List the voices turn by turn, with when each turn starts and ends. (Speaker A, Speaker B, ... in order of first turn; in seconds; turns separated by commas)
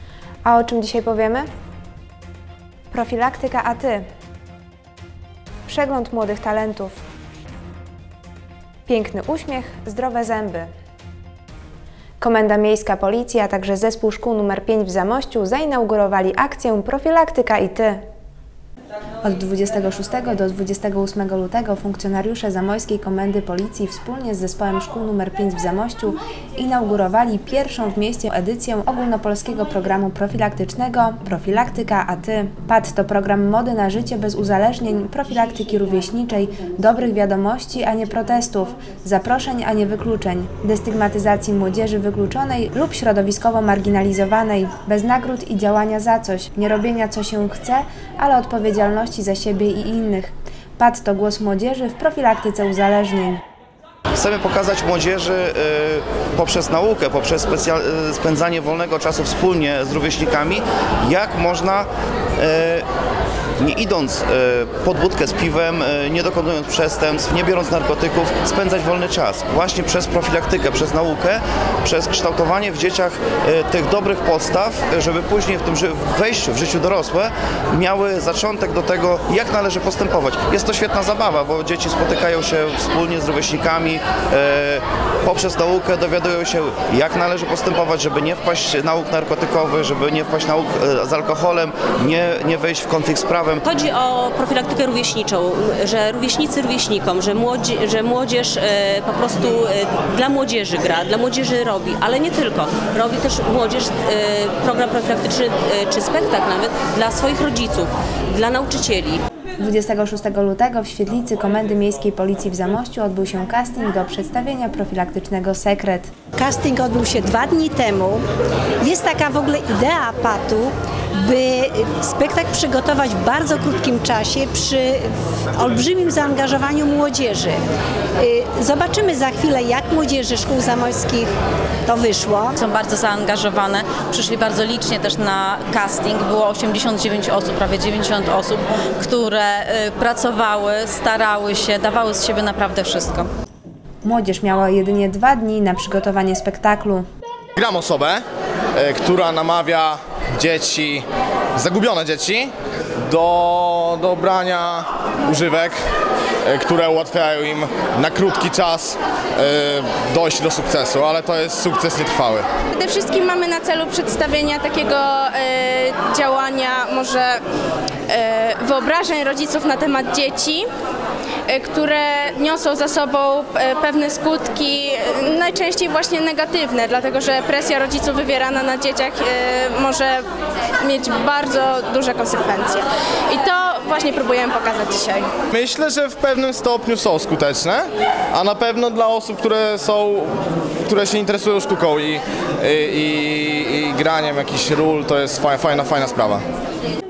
Speaker A: 0.5-1.5, Speaker A: 2.9-4.0, Speaker A: 5.7-6.9, Speaker A: 8.9-10.7, Speaker A: 12.2-18.0, Speaker A: 19.2-53.4, Speaker B: 54.2-61.9, Speaker B: 62.4-62.9, Speaker B: 63.6-93.6, Speaker C: 93.6-109.2, Speaker A: 109.6-116.1, Speaker D: 116.4-118.2, Speaker D: 118.8-127.6, Speaker D: 128.2-131.3, Speaker D: 131.9-132.6, Speaker E: 132.6-143.3, Speaker A: 144.0-147.0, Speaker F: 147.6-148.2, Speaker F: 148.8-152.5, Speaker F: 153.1-155.8, Speaker F: 156.5-162.5, Speaker G: 162.7-167.4, Speaker G: 168.1-170.7, Speaker G: 171.5-180.2, Speaker G: 180.8-185.3, Speaker F: 185.5-190.3, Speaker F: 190.9-196.4